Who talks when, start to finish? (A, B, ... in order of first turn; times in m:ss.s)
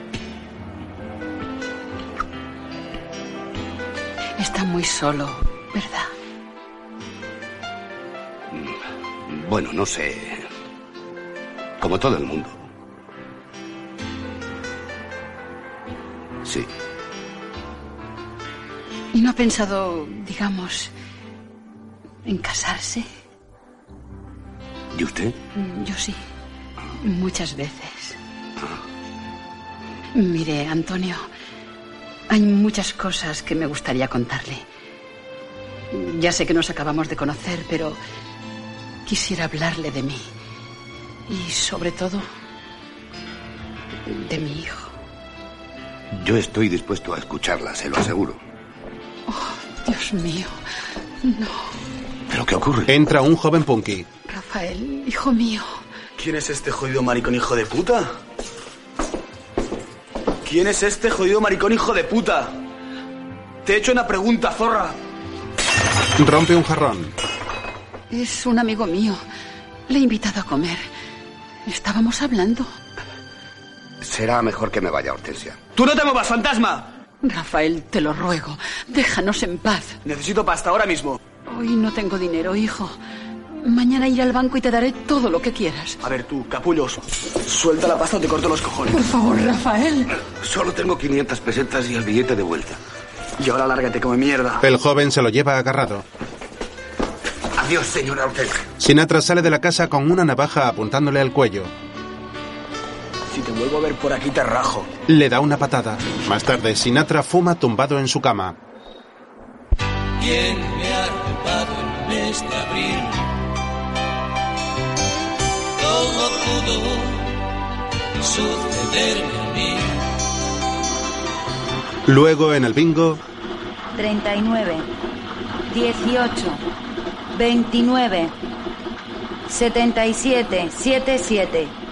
0:04.4-0:06.1 A
0:08.5-0:10.5 B
0:11.8-0:12.6 B
0:19.1-0:20.9 A
0:22.2-0:23.1 A
0:24.9-0:25.4 B
0:25.6-0:26.2 A
0:27.0-0:28.2 A
0:30.2-0:31.3 A
0:32.3-0:34.6 A
0:35.9-0:38.0 A
0:39.1-0:40.3 A
0:41.3-0:42.3 A
0:44.1-0:44.9 A
0:46.1-0:48.4 B
0:49.3-0:50.6 A
0:51.2-0:51.7 A
0:52.3-0:52.9 B
0:52.9-0:54.1 C
0:54.3-0:55.7 A
0:56.2-0:58.1 D
1:00.4-1:02.5 D
1:03.6-1:05.0 D
1:06.2-1:07.1 C
1:08.1-1:09.2 A
1:09.9-1:10.8 A
1:11.7-1:12.7 A
1:14.0-1:15.6 B
1:15.8-1:16.9 D
1:17.2-1:20.0 A
1:20.0-1:21.2 D
1:21.5-1:23.0 A
1:23.6-1:26.0 A
1:26.0-1:29.0 D
1:28.9-1:30.1 A
1:30.4-1:32.8 B
1:33.4-1:34.6 D
1:34.6-1:36.1 C
1:37.6-1:38.6 B
1:38.8-1:41.7 C
1:43.3-1:44.9 D
1:45.1-1:48.6 C
1:50.2-1:53.0 E
1:55.9-1:57.1 E
1:58.2-1:59.8 E
2:02.1-2:03.2 C
2:04.0-2:04.9 F
2:05.7-2:06.6 F
2:07.3-2:08.3 F
2:09.5-2:11.7 F